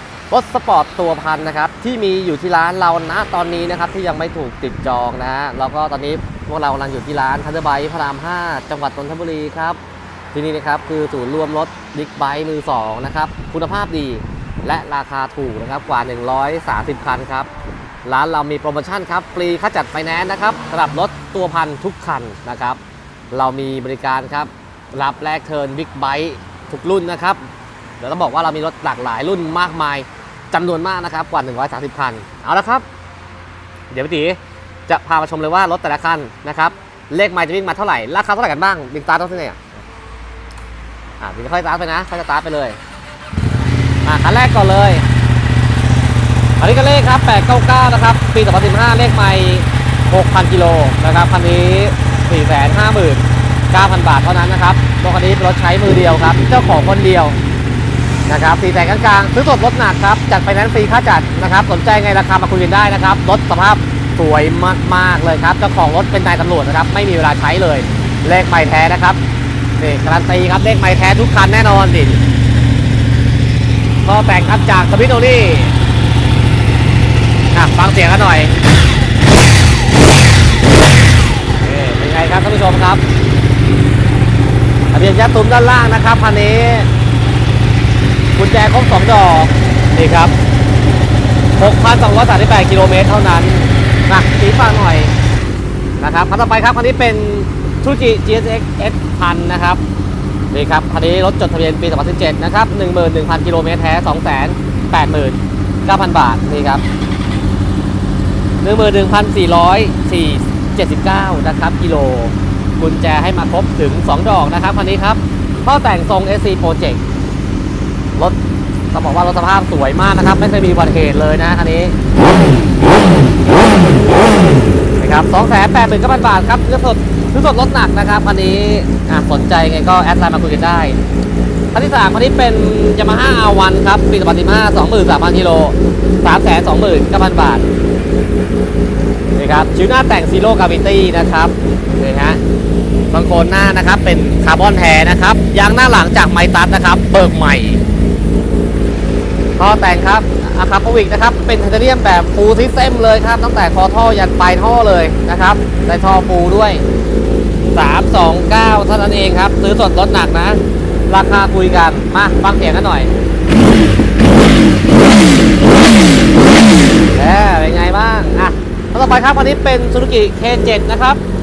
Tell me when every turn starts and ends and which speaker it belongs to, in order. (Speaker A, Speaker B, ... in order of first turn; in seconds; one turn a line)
Speaker A: 0.3-9.8
Speaker A: 10.3-17.5
Speaker A: 18.0-22.8
Speaker A: 23.3-27.4
Speaker A: 28.0-32.8
Speaker A: 33.9-39.7
Speaker A: 41.2-42.8
Speaker A: 44.0-45.0
Speaker A: 46.6-57.4
Speaker A: 58.3-69.2
Speaker A: 69.8-72.2
Speaker A: 74.0-75.7
Speaker A: 77.5-78.5
Speaker A: 81.6-83.0
Speaker A: 84.9-86.9
Speaker A: 88.3-90.3
Speaker A: 91.5-95.1
Speaker A: 96.0-99.8
Speaker A: 100.5-106.8
Speaker A: 108.6-117.0
Speaker A: 118.9-122.0
Speaker A: 125.0-131.0
Speaker A: 131.7-137.7
Speaker A: 139.3-142.4
Speaker A: 143.1-147.8
Speaker A: 149.6-156.8
Speaker A: 157.7-163.1
Speaker A: 167.1-171.2